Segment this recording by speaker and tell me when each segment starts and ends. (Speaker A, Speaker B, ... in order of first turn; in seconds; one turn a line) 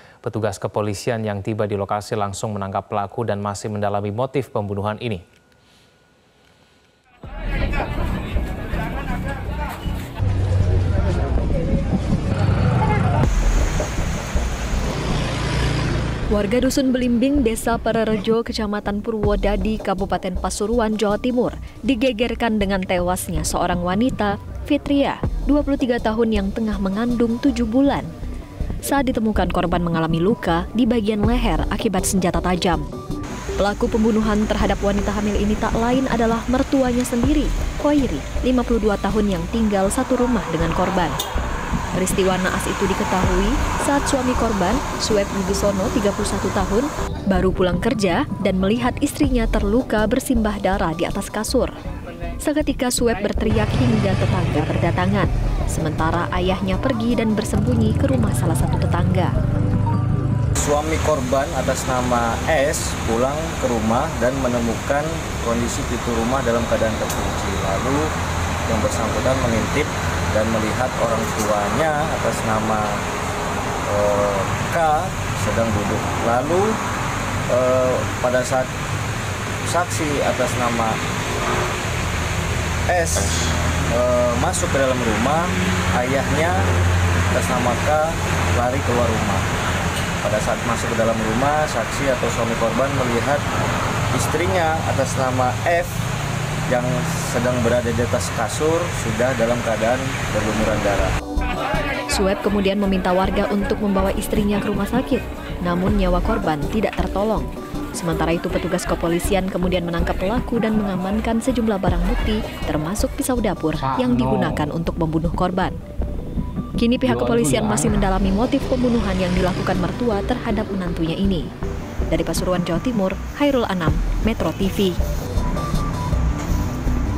Speaker A: 0.2-5.2
Speaker B: 16.3-28.1
Speaker B: 28.9-32.9
Speaker B: 33.6-41.2
Speaker B: 41.9-51.7
Speaker B: 52.4-59.3
Speaker C: 60.6-68.1
Speaker C: 68.7-73.0
Speaker C: 73.9-76.8
Speaker C: 77.5-78.7
Speaker C: 79.7-81.0
Speaker C: 82.9-83.4
Speaker C: 83.9-86.7
Speaker C: 87.3-89.5
Speaker C: 90.2-93.4
Speaker C: 94.1-96.0
Speaker C: 96.7-101.1
Speaker B: 102.1-115.8
Speaker A: 114.0-114.5
Speaker B: 116.8-121.4
Speaker A: 117.1-118.0
Speaker B: 122.1-125.0